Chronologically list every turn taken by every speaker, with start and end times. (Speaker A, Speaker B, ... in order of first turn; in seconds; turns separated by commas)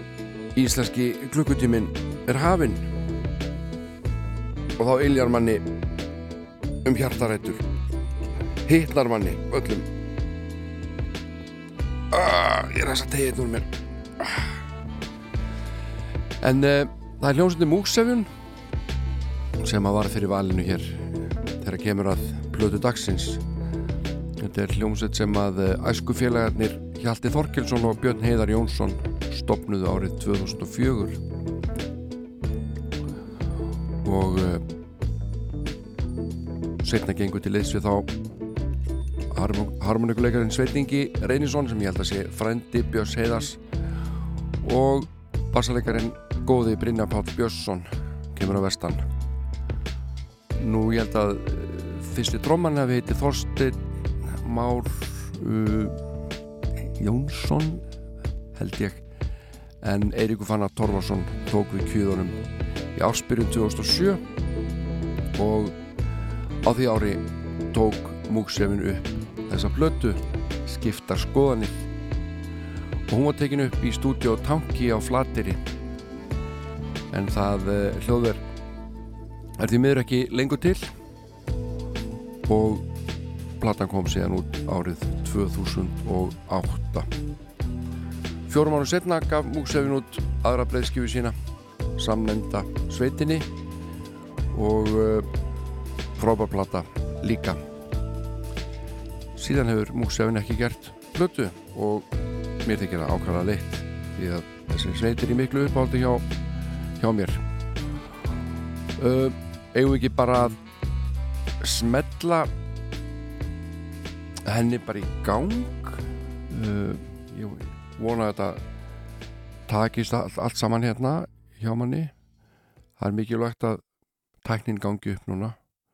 Speaker A: 0.6-2.9, Speaker A: 4.8-5.6, Speaker A: 6.8-7.6, Speaker A: 8.7-9.9, Speaker A: 12.1-13.7, Speaker A: 14.2-14.5, Speaker A: 16.4-18.3, Speaker A: 19.6-23.4, Speaker A: 24.4-31.2, Speaker A: 34.0-34.6, Speaker A: 36.8-38.1, Speaker A: 39.3-43.6, Speaker A: 44.6-49.0, Speaker A: 50.6-56.0, Speaker A: 57.0-57.9, Speaker A: 58.5-59.0, Speaker A: 59.8-62.4, Speaker A: 63.0-64.2, Speaker A: 65.3-65.8, Speaker A: 66.6-71.9, Speaker A: 73.1-75.6, Speaker A: 77.1-78.4, Speaker A: 79.6-80.9, Speaker A: 82.5-82.8, Speaker A: 83.6-87.1, Speaker A: 88.5-91.3, Speaker A: 92.0-93.5, Speaker A: 94.5-95.3, Speaker A: 96.2-97.6, Speaker A: 99.4-102.1, Speaker A: 102.6-106.2, Speaker A: 107.0-107.4, Speaker A: 109.0-110.5, Speaker A: 111.6-112.5, Speaker A: 114.5-118.6, Speaker A: 119.7-122.1, Speaker A: 123.0-123.8, Speaker A: 124.4-125.6